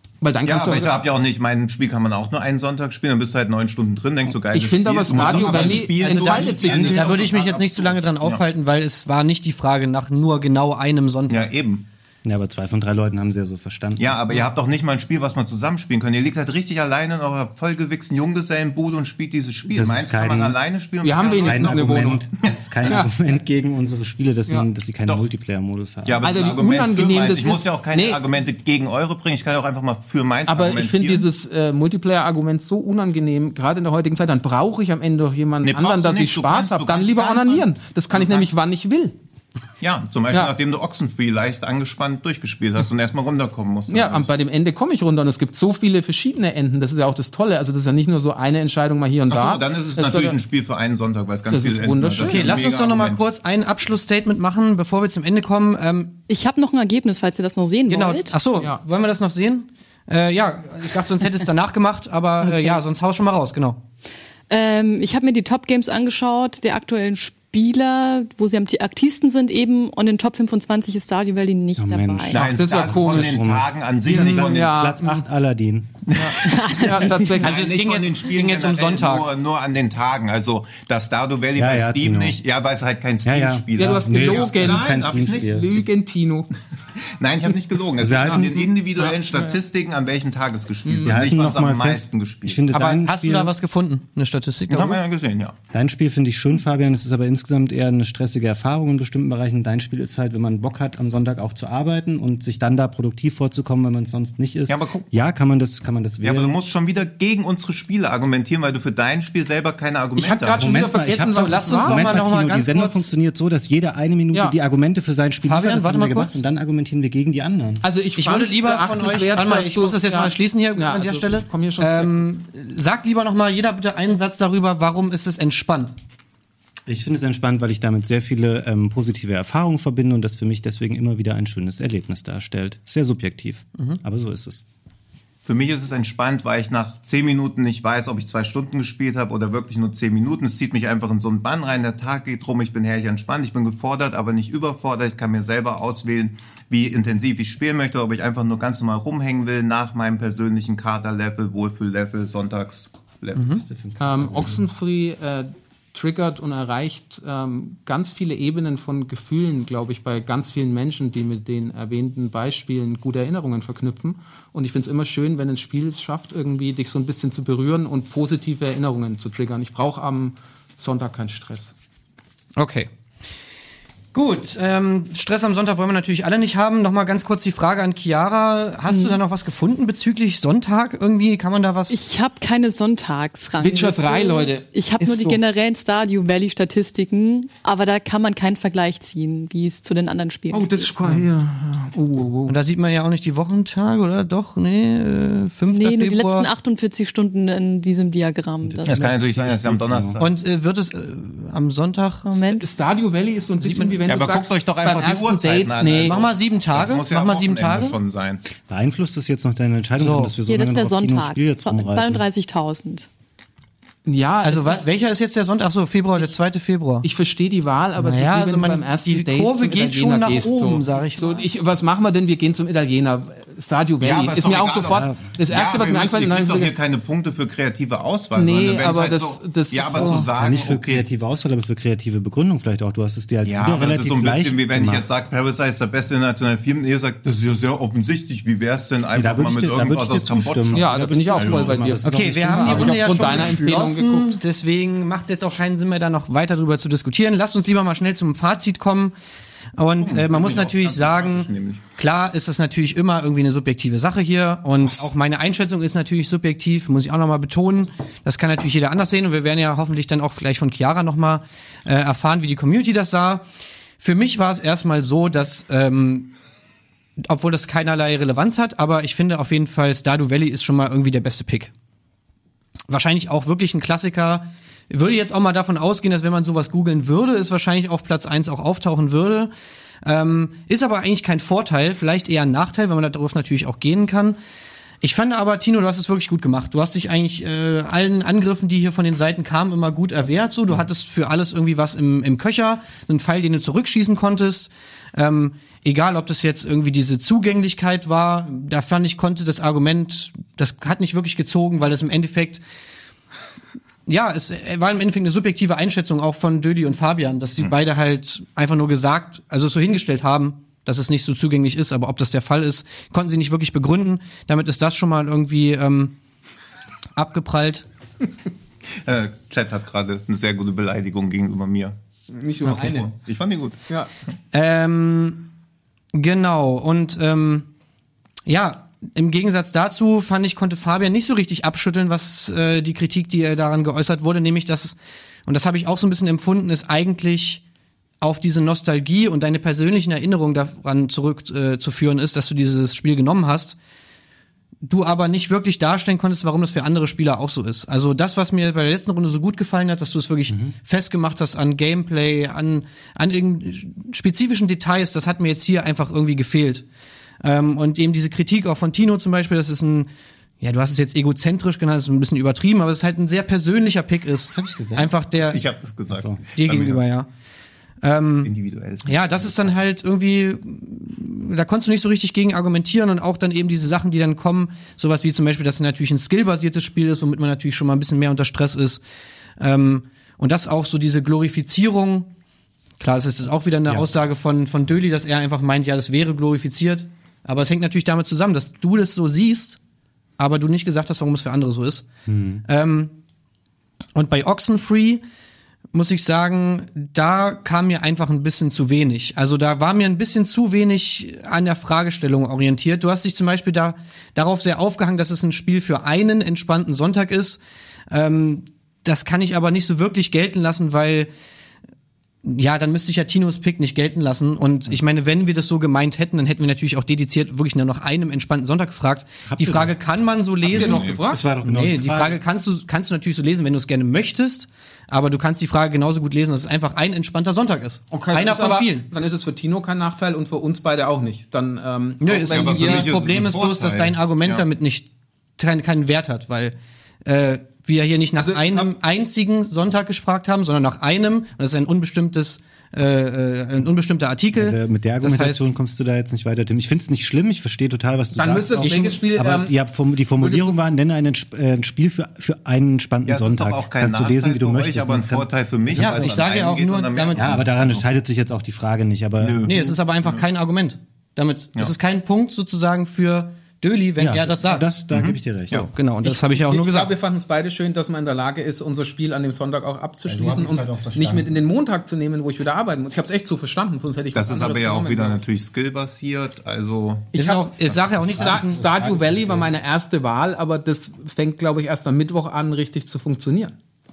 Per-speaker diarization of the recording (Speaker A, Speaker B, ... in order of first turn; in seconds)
Speaker A: 0.2-1.0, 4.3-7.2, 21.0-22.3, 26.2-28.2, 30.5-39.1, 43.9-50.4, 51.5-52.6, 72.5-73.4, 74.1-75.2, 76.1-77.6, 83.8-86.5, 88.2-89.5, 90.8-91.2, 110.2-112.2, 117.8-122.4, 154.0-171.7, 183.6-185.4, 190.5-192.6, 202.6-206.2, 214.1-214.9, 217.0-226.8, 228.3-230.3, 240.7-244.4, 322.3-323.1, 420.6-421.4, 428.1-433.2, 438.4-438.9, 448.4-449.8, 450.4-450.7, 466.3-475.4, 477.3-477.7, 478.3-483.8
Speaker B: 0.5-8.4, 11.3-11.9, 14.0-23.0, 26.1-31.3, 35.6-38.5, 39.8-44.3, 49.3-53.2, 72.3-74.8, 76.1-76.6, 77.3-85.5, 87.0-92.6, 94.7-95.5, 104.7-105.1, 106.2-110.7, 135.4-153.6, 198.8-200.3, 204.1-208.4, 224.0-231.1, 233.4-241.9, 250.0-251.8, 319.0-322.0, 322.6-323.8, 365.5-367.0, 368.4-369.8, 420.7-421.2, 432.4-434.6, 453.3-458.1, 459.4-460.4, 465.1-465.9, 470.2-471.4, 474.3-477.4
Speaker C: 5.2-5.7, 12.2-14.2, 19.7-20.6, 21.3-26.2, 62.4-62.7, 71.8-76.1, 81.5-82.4, 83.2-85.7, 88.0-88.5, 91.0-93.5, 95.7-106.6, 110.6-117.8, 126.9-134.6, 153.5-154.7, 198.6-200.2, 208.6-212.2, 224.9-225.2, 229.9-235.1, 239.2-243.1, 350.5-350.8, 364.5-365.1, 366.1-366.4, 392.3-392.6, 419.5-419.9, 421.3-422.4, 444.6-456.4, 457.4-459.6, 464.2-465.9, 478.0-479.7
Speaker D: 6.8-11.4, 52.2-56.1, 57.9-63.8, 77.4-79.3, 92.7-95.0, 111.5-113.1, 115.5-116.4, 118.2-126.0, 153.3-153.6, 172.6-172.9, 174.1-182.0, 192.5-196.5, 200.2-202.3, 203.6-204.0, 206.0-208.0, 210.0-210.3, 214.4-217.1, 218.0-221.5, 242.0-249.1, 249.8-263.4, 264.0-266.3, 267.2-271.7, 272.9-279.5, 280.0-284.4, 285.0-302.6, 304.1-316.1, 317.2-317.9, 322.6-323.0, 324.5-325.5, 326.1-327.7, 328.5-337.6, 338.2-343.8, 344.9-356.8, 357.4-360.1, 360.6-365.6, 366.6-367.3, 368.0-368.5, 369.1-379.0, 379.6-382.3, 383.0-389.8, 390.4-392.1, 392.7-393.1, 394.1-395.2, 395.9-407.6, 408.1-411.3, 412.4-421.1, 421.6-429.1, 432.2-435.1, 435.6-445.7, 448.8-449.2, 455.9-457.6, 459.6-464.9, 465.9-467.1, 477.4-478.8
Speaker E: 56.3-58.4, 64.5-72.5, 76.4-77.4, 178.9-179.2, 181.9-191.2, 195.7-199.2, 202.3-202.7, 210.4-213.1